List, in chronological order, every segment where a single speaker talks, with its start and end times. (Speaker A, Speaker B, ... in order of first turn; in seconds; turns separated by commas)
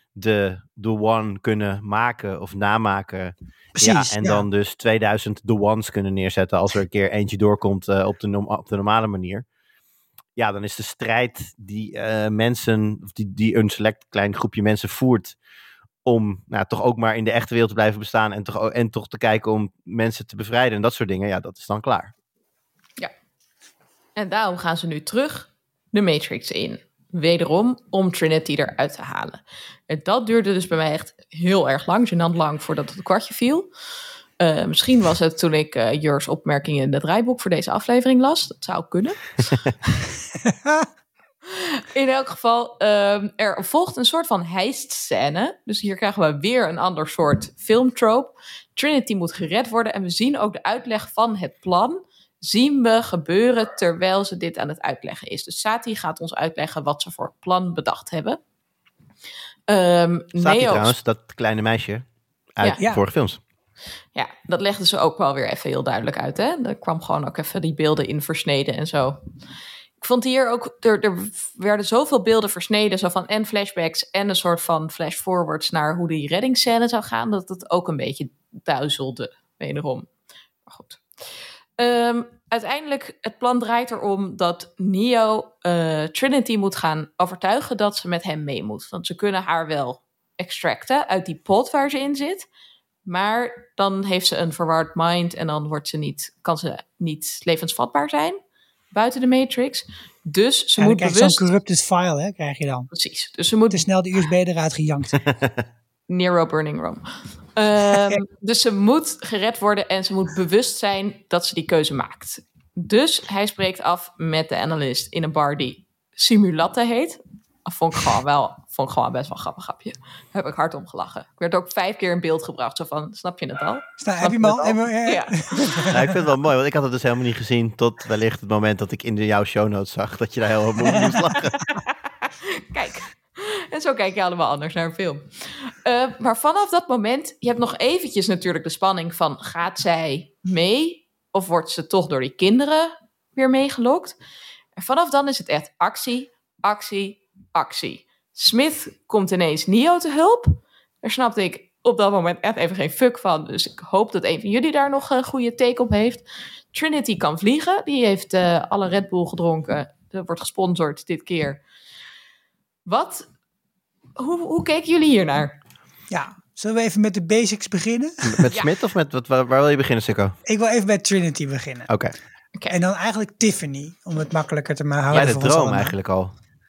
Speaker A: 0.2-9.4, Speaker B: 3.8-4.5, Speaker A: 10.4-15.4, Speaker A: 16.1-22.1, Speaker C: 24.2-33.7, Speaker C: 34.4-39.5, Speaker B: 40.4-40.9, Speaker C: 41.5-58.4, Speaker C: 59.7-60.9, Speaker A: 60.4-62.0, Speaker A: 62.6-63.4, Speaker C: 64.2-69.2, Speaker C: 70.0-80.1, Speaker C: 80.7-81.0, Speaker C: 81.8-92.5, Speaker C: 93.0-98.4, Speaker C: 98.9-101.5, Speaker B: 100.8-102.9, Speaker C: 102.9-103.9, Speaker B: 103.7-105.2, Speaker A: 105.3-105.6, Speaker C: 106.1-125.9, Speaker B: 124.0-126.2, Speaker A: 125.9-131.6, Speaker B: 130.8-131.3, Speaker C: 131.7-144.2, Speaker C: 144.8-161.6, Speaker C: 162.9-163.3, Speaker C: 164.2-165.6, Speaker B: 166.1-168.5, Speaker A: 168.2-170.4, Speaker B: 170.5-171.9, Speaker A: 171.9-172.2, Speaker B: 172.7-175.9, Speaker A: 175.1-176.3